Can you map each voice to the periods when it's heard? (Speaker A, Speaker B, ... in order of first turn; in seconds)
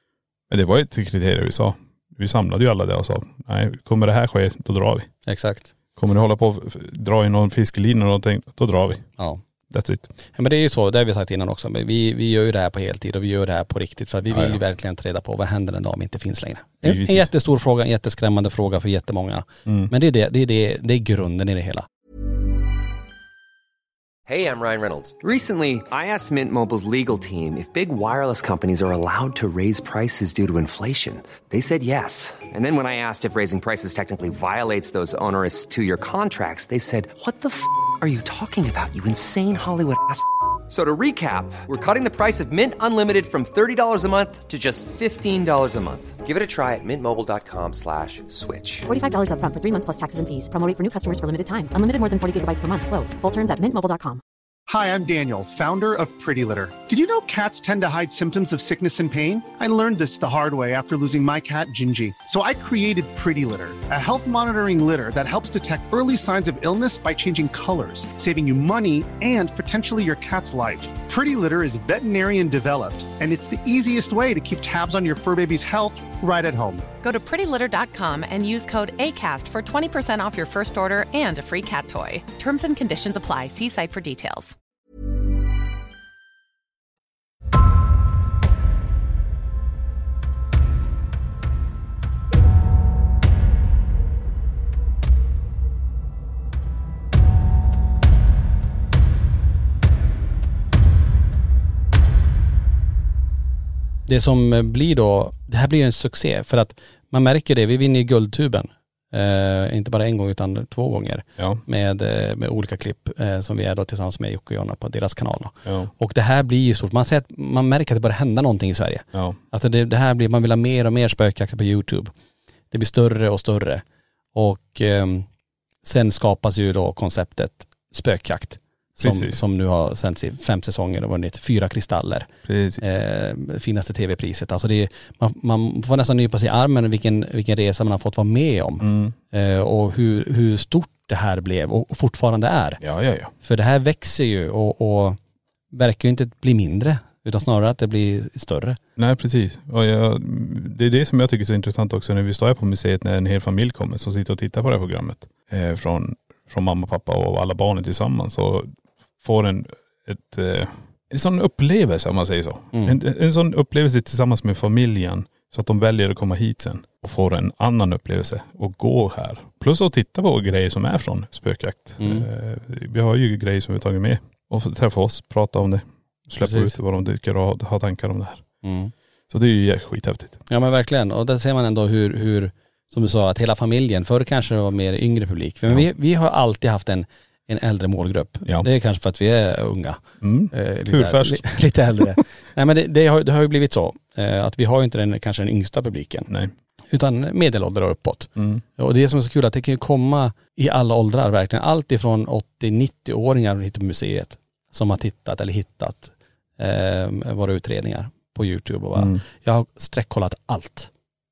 Speaker A: 0.5-5.1, 6.0-9.1, 9.7-10.1, 14.3-14.6, 16.8-17.3, 19.7-19.9, 115.7-115.9, 129.0-129.4, 132.5-132.8, 138.8-139.2, 142.8-143.3, 149.0-178.4, 179.3-180.4, 190.2-192.2, 198.4-198.6, 209.0-209.2
Speaker B: 5.3-5.7, 10.3-21.9, 104.1-122.1, 122.7-123.8, 124.3-125.3, 125.8-132.3, 132.8-142.8, 143.4-145.2, 145.7-148.8, 162.7-163.0, 172.0-172.3, 176.4-176.8, 178.6-178.9, 180.5-190.0, 190.5-196.3, 196.9-210.9
Speaker C: 24.3-48.9
Speaker D: 48.9-54.2
Speaker E: 54.7-76.9
Speaker F: 77.0-84.5